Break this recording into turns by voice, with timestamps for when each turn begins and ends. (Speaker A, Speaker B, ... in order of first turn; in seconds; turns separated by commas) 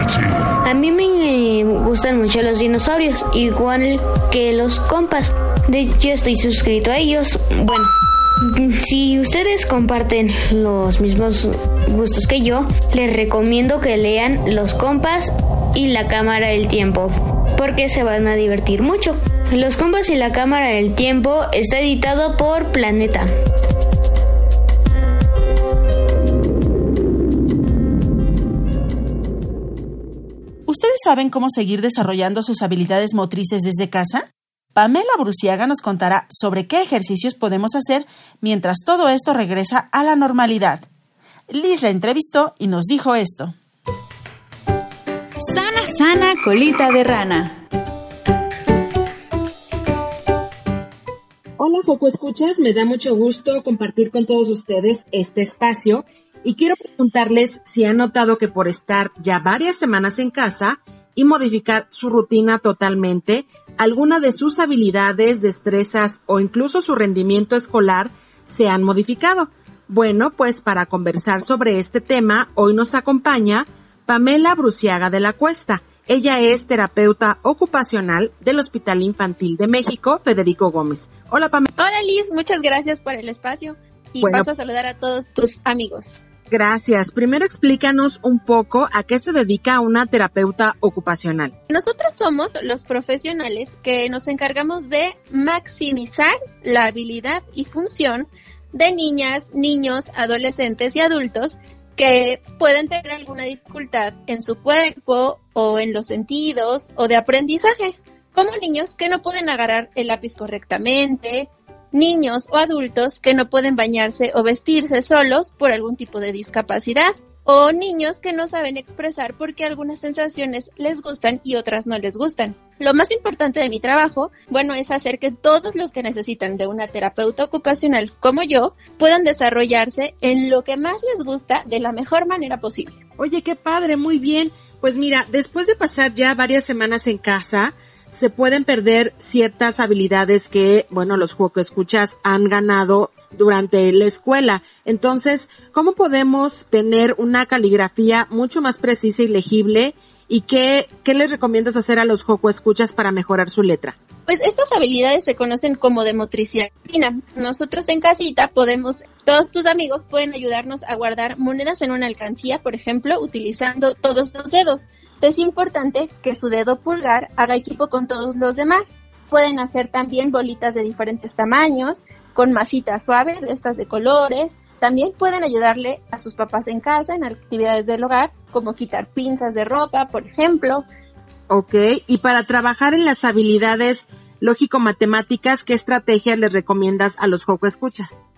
Speaker A: 0.6-23.3, Speaker B: 30.6-40.8, Speaker B: 41.5-43.5, Speaker C: 45.4-47.5, Speaker D: 51.6-81.7, Speaker E: 81.8-86.2, Speaker D: 84.2-84.5, Speaker D: 86.5-91.5, Speaker E: 91.7-133.0, Speaker D: 133.2-153.9, Speaker E: 154.3-180.8, Speaker D: 181.5-188.2